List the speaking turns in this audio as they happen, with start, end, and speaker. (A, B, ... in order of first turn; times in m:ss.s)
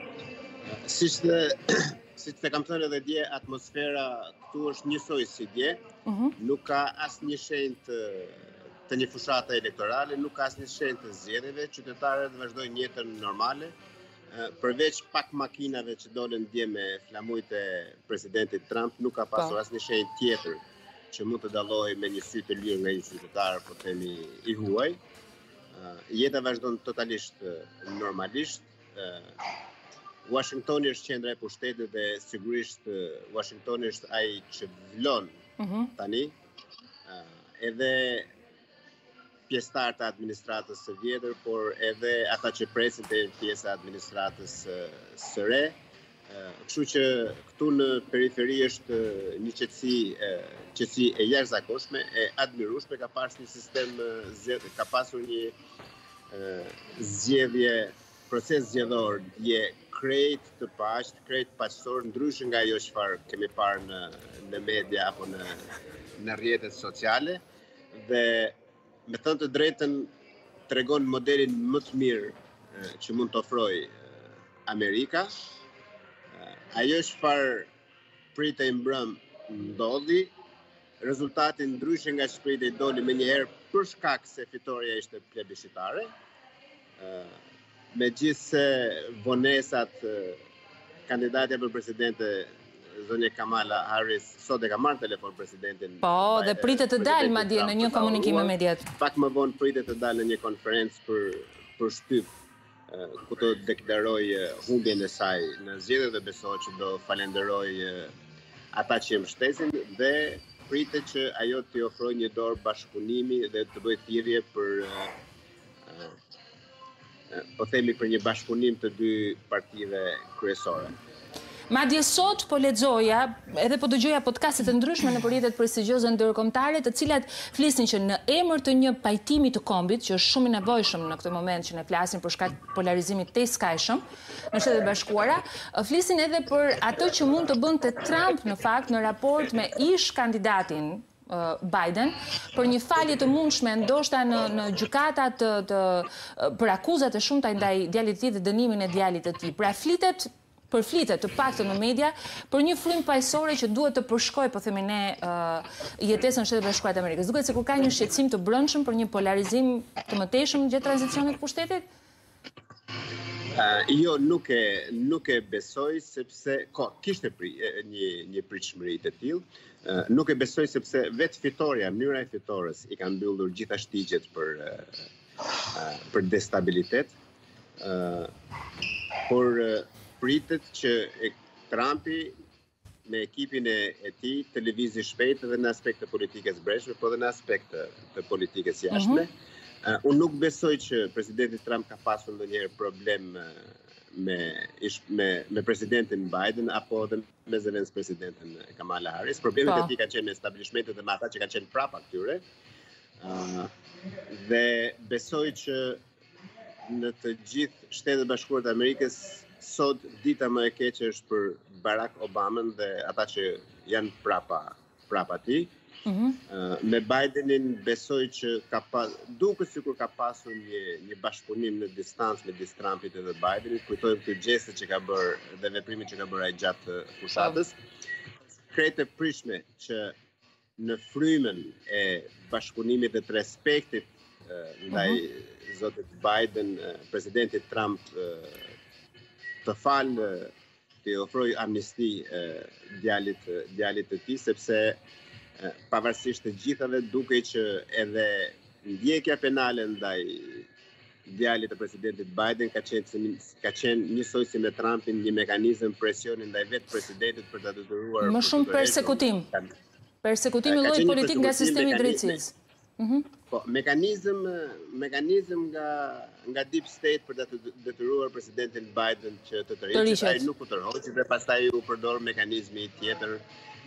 0:00.7-0:05.8 A
0:06.0-0:06.3 B
0:06.4-0:13.7 A
0:14.3-0:25.0 A
0:25.7-0:29.4 A
0:30.2-0:35.3 A
0:35.6-0:35.9 B
0:36.0-0:36.3 A
0:37.1-0:38.3 A
0:39.5-0:45.7 A
0:46.3-0:55.5 A
0:56.3-1:05.7 A
1:06.2-1:07.4 A
1:08.0-1:08.5 A
1:09.1-1:10.1 A
1:10.7-1:14.0 A
1:14.6-1:15.3 A
1:16.3-1:17.7 A
1:18.3-1:20.3 A
1:21.0-1:26.1 A
1:27.0-1:27.4 A
1:27.9-1:30.4 A
1:31.1-1:42.3 A
1:36.0-1:38.8 B
1:42.9-1:48.1 A
1:48.7-1:55.1 A
1:55.8-1:56.2 A
1:57.3-2:00.9 A
2:01.7-2:41.8 B
2:43.5-2:54.9 A
2:55.7-2:57.1 A
2:57.8-2:58.3 A
2:59.3-3:02.3 A
3:03.0-3:09.3 A
3:08.9-3:09.2 B
3:09.8-3:22.4 A
3:19.6-3:19.9 B
3:23.2-3:23.7 A
3:24.3-3:26.0 A
3:26.9-3:35.7 A
3:36.0-3:36.4 B
3:36.5-3:47.7 A
3:48.7-3:50.1 A
3:50.8-3:58.7 A
3:54.9-3:55.2 B
3:59.6-4:00.5 A
4:01.0-4:05.0 A
4:05.6-4:10.7 A
4:11.2-4:19.7 A
4:18.2-4:19.5 B
4:20.2-4:23.3 B
4:20.6-4:22.4 A
4:23.5-4:33.4 A
4:29.9-4:30.4 B